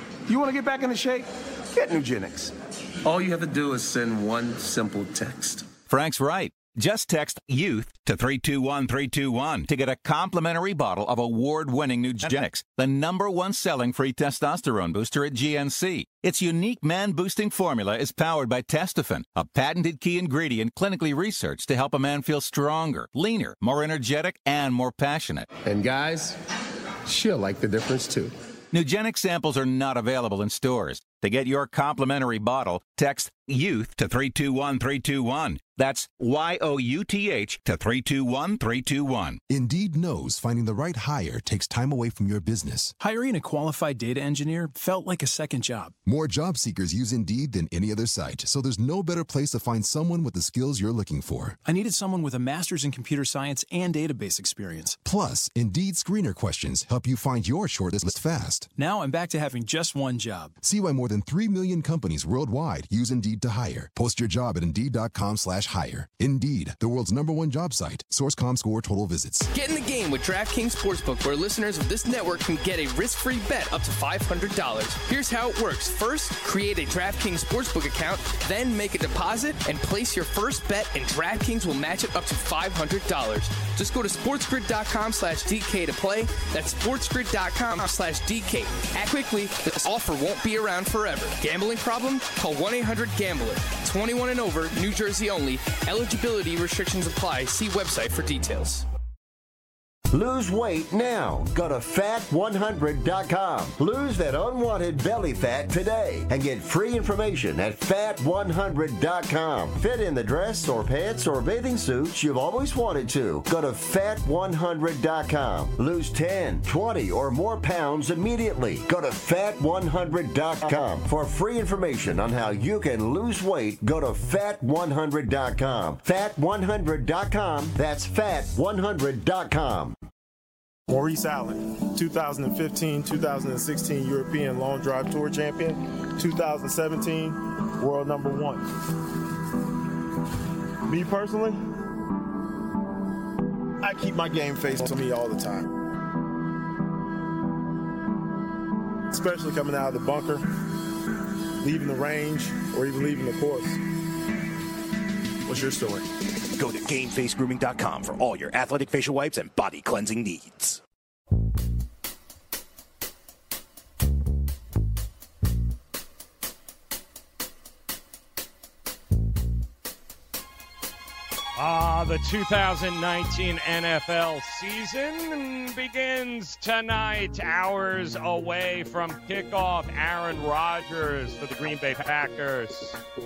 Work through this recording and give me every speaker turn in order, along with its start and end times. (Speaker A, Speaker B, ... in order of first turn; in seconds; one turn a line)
Speaker A: 0.3-2.5
Speaker A: 3.0-5.7
Speaker B: 5.9-25.5
Speaker A: 25.6-26.4
Speaker A: 27.1-28.3
Speaker B: 28.7-39.4
Speaker C: 39.5-42.9
Speaker D: 43.0-46.0
Speaker C: 46.0-51.6
Speaker D: 51.6-55.0
Speaker C: 55.0-58.7
Speaker D: 58.7-60.6
Speaker C: 60.6-69.5
Speaker E: 69.5-98.8
Speaker F: 100.1-129.9
Speaker G: 130.9-138.7
Speaker G: 140.8-141.6
Speaker G: 143.8-145.7
Speaker G: 149.1-150.4
Speaker G: 151.6-153.8
Speaker G: 155.4-156.1
Speaker H: 156.6-160.7
Speaker I: 171.6-183.0